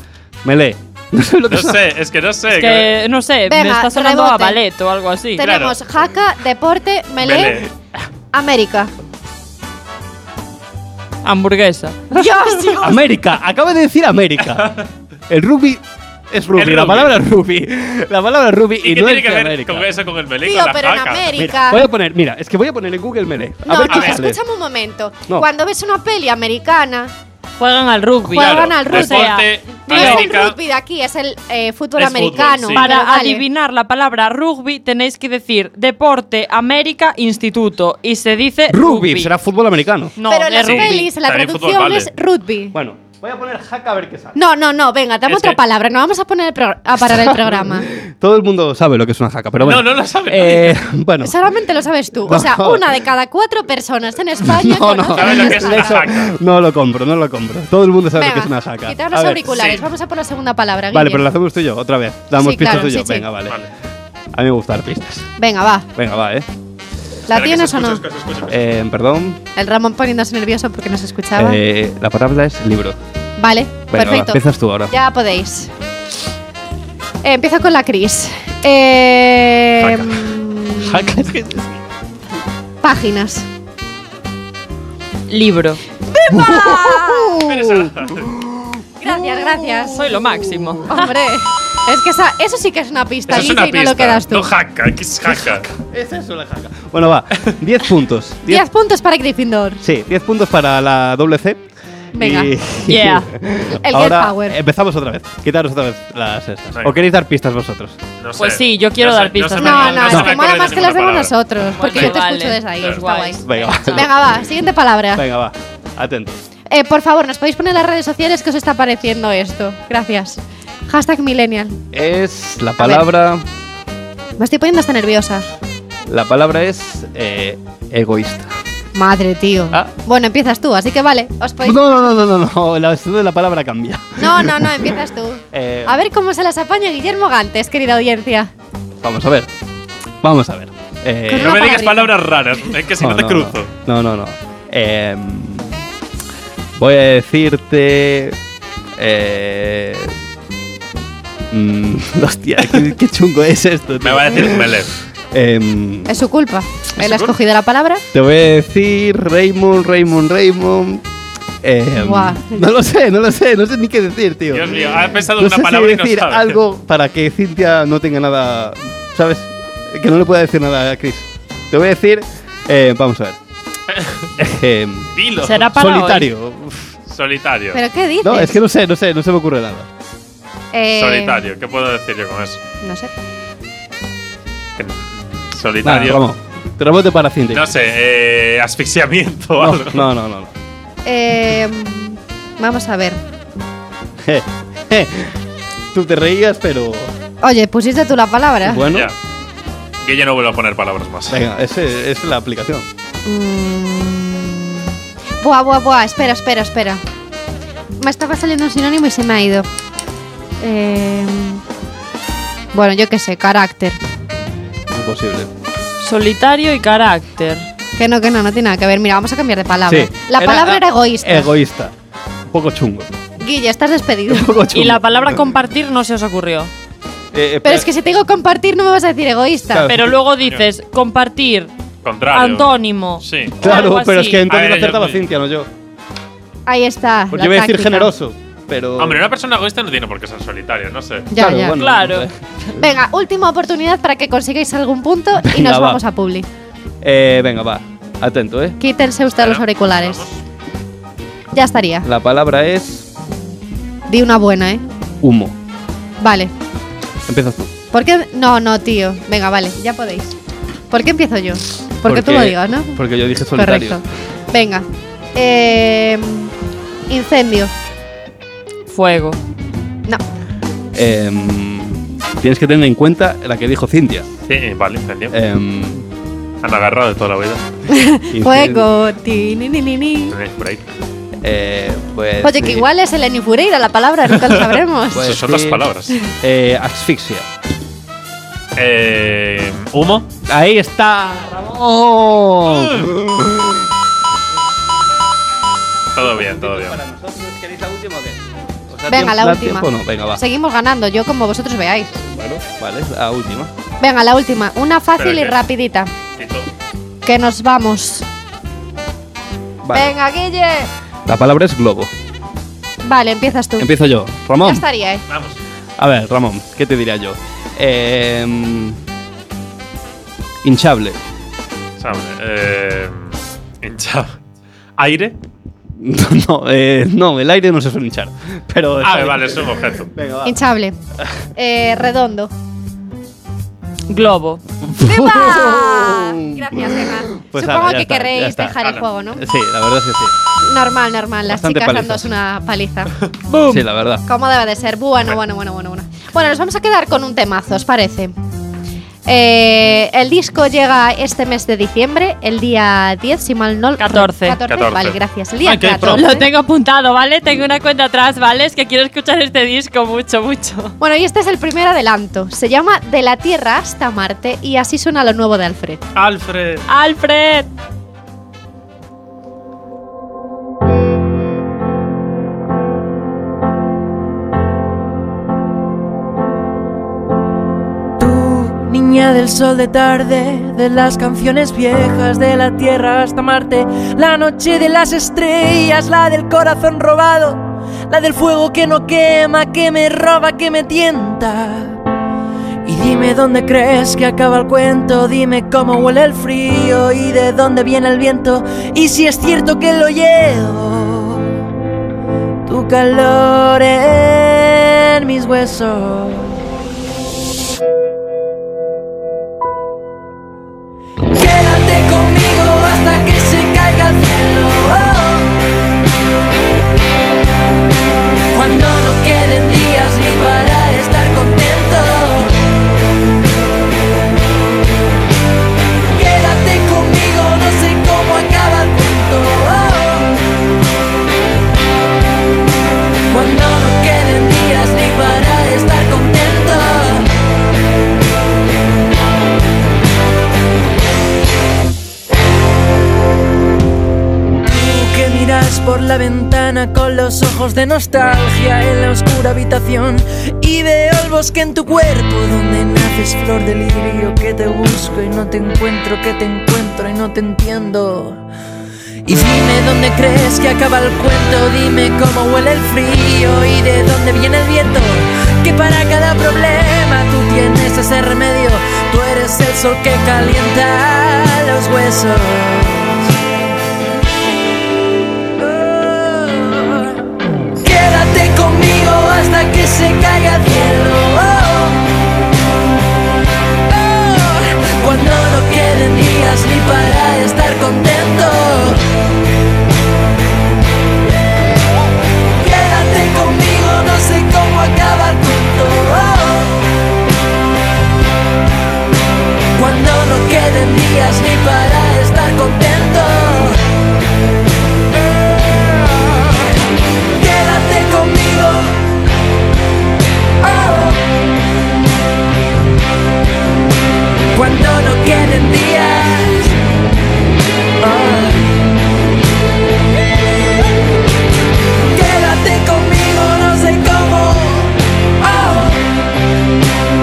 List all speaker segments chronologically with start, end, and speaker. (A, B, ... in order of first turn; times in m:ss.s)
0:00.4-0:01.8 A
0:01.5-0:02.9 B
0:02.5-0:05.4 C
0:03.5-0:04.6 D
0:05.4-0:07.7 D
0:05.4-0:05.8 B
0:07.2-0:07.7 B
0:08.3-0:08.9 D
0:11.2-0:12.0 C
0:12.1-0:13.0 D
0:12.1-0:14.8 A
0:14.6-0:14.9 B
0:15.3-0:19.9 A
0:16.6-0:17.2 B
0:18.8-0:21.5 B
0:20.4-0:21.9 D
0:21.4-0:24.4 A
0:23.7-0:27.1 D
0:23.9-0:24.2 B
0:27.6-0:30.3 C
0:28.3-0:33.4 D
0:28.3-0:30.6 B
0:32.0-0:32.9 B
0:32.7-0:39.3 C
0:38.7-0:40.1 A
0:40.2-0:41.1 C
0:40.3-0:42.8 D
0:40.6-0:42.1 B
0:42.7-0:44.4 A
0:44.4-0:47.9 D
0:45.3-0:45.6 B
0:47.0-0:51.4 A
0:49.6-0:50.8 B
0:51.2-0:56.1 D
0:52.2-0:53.0 A
0:54.4-0:59.5 A
0:55.1-0:56.4 B
0:58.2-1:01.3 D
0:59.5-0:59.9 B
1:00.9-1:03.6 A
1:02.4-1:03.3 D
1:04.3-1:05.3 A
1:05.4-1:05.9 D
1:06.0-1:06.5 A
1:07.3-1:08.0 D
1:07.3-1:08.6 B
1:08.5-1:09.4 A
1:09.6-1:11.6 D
1:11.4-1:13.0 A
1:13.4-1:15.7 D
1:13.9-1:14.9 A
1:17.2-1:21.2 D
1:19.8-1:20.3 B
1:20.8-1:21.7 A
1:22.8-1:23.5 D
1:25.3-1:25.8 C
1:26.1-1:27.6 D
1:26.3-1:30.8 A
1:27.4-1:28.3 B
1:29.0-1:30.1 D
1:29.9-1:31.1 C
1:30.9-1:34.5 D
1:33.3-1:35.7 B
1:35.3-1:38.7 A
1:38.5-1:39.8 D
1:39.8-1:41.6 A
1:42.1-1:48.0 A
1:42.2-1:42.5 D
1:42.9-1:43.3 C
1:43.8-1:44.6 D
1:46.8-1:47.0 B
1:48.2-1:52.2 B
1:48.4-1:50.2 C
1:49.6-1:55.3 D
1:50.1-1:50.4 A
1:51.8-1:54.1 C
1:53.4-1:54.4 A
1:55.1-1:56.4 A
1:56.7-2:01.8 D
2:01.9-2:03.4 A
2:02.8-2:03.1 D
2:04.4-2:05.5 D
2:06.1-2:08.5 A
2:08.9-2:11.8 D
2:11.6-2:15.0 A
2:14.2-2:18.5 D
2:15.5-2:16.0 A
2:19.0-2:19.5 A
2:20.2-2:21.7 A
2:21.3-2:22.1 D
2:21.4-2:23.7 B
2:23.0-2:25.8 A
2:26.8-2:28.4 A
2:29.0-2:30.2 A
2:31.5-2:36.1 A
2:34.0-2:34.9 B
2:36.1-2:38.0 D
2:37.0-2:37.4 B
2:38.1-2:41.0 A
2:41.6-2:53.4 A
2:42.0-2:42.7 D
2:44.5-2:46.6 B
2:53.9-2:54.3 B
2:54.4-2:56.9 A
2:55.2-2:55.7 B
2:55.4-2:56.3 C
2:57.1-2:57.8 B
2:57.7-2:58.6 D
2:58.2-2:59.9 A
3:00.7-3:01.4 D
3:00.9-3:02.6 B
3:02.8-3:03.1 D
3:04.8-3:06.2 B
3:05.8-3:07.7 A
3:07.5-3:10.1 B
3:09.6-3:10.5 A
3:11.0-3:13.2 D
3:14.2-3:15.4 A
3:15.9-3:17.1 A
3:17.4-3:18.9 D
3:18.6-3:19.1 A
3:18.9-3:19.2 B
3:20.0-3:21.4 B
3:21.3-3:22.9 A
3:23.2-3:24.9 D
3:25.4-3:27.0 D
3:28.0-3:29.7 D
3:30.6-3:31.6 D
3:32.7-3:34.0 D
3:34.9-3:35.5 A
3:36.0-3:37.7 C
3:38.0-3:41.5 D
3:39.9-3:41.9 A
3:42.5-3:43.1 A
3:43.4-3:44.6 D
3:44.3-3:45.5 A
3:44.7-3:46.7 C
3:47.3-3:47.9 A
3:47.6-3:49.9 D
3:49.7-3:50.2 A
3:49.9-3:51.7 C
3:52.0-3:53.6 B
3:52.3-3:54.4 C
3:53.6-3:55.7 A
3:54.5-3:55.2 B
3:56.7-3:58.1 D
3:57.3-3:59.2 A
3:59.0-4:01.3 B
4:01.3-4:01.8 D
4:01.3-4:02.7 A
4:01.8-4:02.3 C
4:02.8-4:06.5 D
4:05.4-4:06.0 A
4:07.0-4:08.8 A
4:08.8-4:10.2 D
4:09.4-4:10.4 B
4:11.5-4:12.1 D
4:12.0-4:13.1 A
4:14.1-4:14.8 D
4:15.2-4:15.6 A
4:16.2-4:16.5 D
4:17.3-4:17.7 A
4:17.9-4:20.4 D
4:20.9-4:23.0 D
4:22.0-4:24.0 A
4:23.6-4:26.5 D
4:27.1-4:27.7 D
4:28.9-4:29.4 C
4:30.9-4:34.3 A
4:34.5-4:35.4 B
4:35.3-4:36.1 A
4:36.6-4:37.6 B
4:37.9-4:40.4 D
4:38.3-4:38.9 A
4:40.3-4:40.9 B
4:41.4-4:42.9 A
4:42.4-4:45.4 D
4:44.5-4:46.2 B
4:45.1-4:45.8 A
4:46.4-4:47.5 A
4:48.8-4:50.3 B
4:50.5-4:53.9 A
4:52.7-4:53.2 B
4:56.2-4:57.0 B
4:56.2-5:00.4 A
4:59.1-5:02.2 D
5:02.2-5:03.7 A
5:04.0-5:06.1 D
5:05.2-5:05.6 B
5:06.4-5:06.7 B
5:07.2-5:08.3 D
5:09.8-5:10.2 A
5:09.9-5:10.9 D
5:11.3-5:12.1 A
5:13.0-5:13.9 D
5:13.8-5:14.8 A
5:14.6-5:15.2 D
5:15.3-5:15.6 B
5:16.0-5:19.0 A
5:20.6-5:21.2 A
5:22.0-5:24.4 B
5:25.0-5:25.4 B
5:26.0-5:30.6 A
5:29.0-5:30.1 B
5:30.4-5:31.0 D
5:31.6-5:32.5 D
5:34.1-5:34.6 C
5:34.8-5:38.8 A
5:35.0-5:39.4 D
5:39.4-5:40.3 A
5:40.6-5:43.1 D
5:41.5-5:42.3 A
5:43.5-5:43.8 C
5:43.7-5:44.2 A
5:44.3-5:48.4 D
5:49.3-5:56.5 D
5:54.0-5:54.6 C
5:54.7-5:56.3 B
5:56.1-6:01.0 C
6:01.0-6:06.0 D
6:06.2-6:06.8 B
6:06.9-6:07.7 C
6:18.2-6:32.0 E
6:32.8-6:41.5 E
6:42.7-6:46.6 E
6:51.3-6:55.5 E
6:58.5-7:02.6 E
7:06.1-7:10.3 E
7:13.3-7:17.3 E
7:24.6-7:38.4 E
7:39.3-7:53.3 E
7:55.6-7:57.2 E
7:57.8-8:02.1 E
8:03.9-8:09.0 E
8:12.6-8:16.8 E
8:19.8-8:23.8 E
8:25.2-8:26.7 E
8:27.3-8:29.0 E
8:30.6-8:31.2 E
8:34.5-8:36.8 E
8:38.0-8:38.8 E
8:42.1-8:46.0 E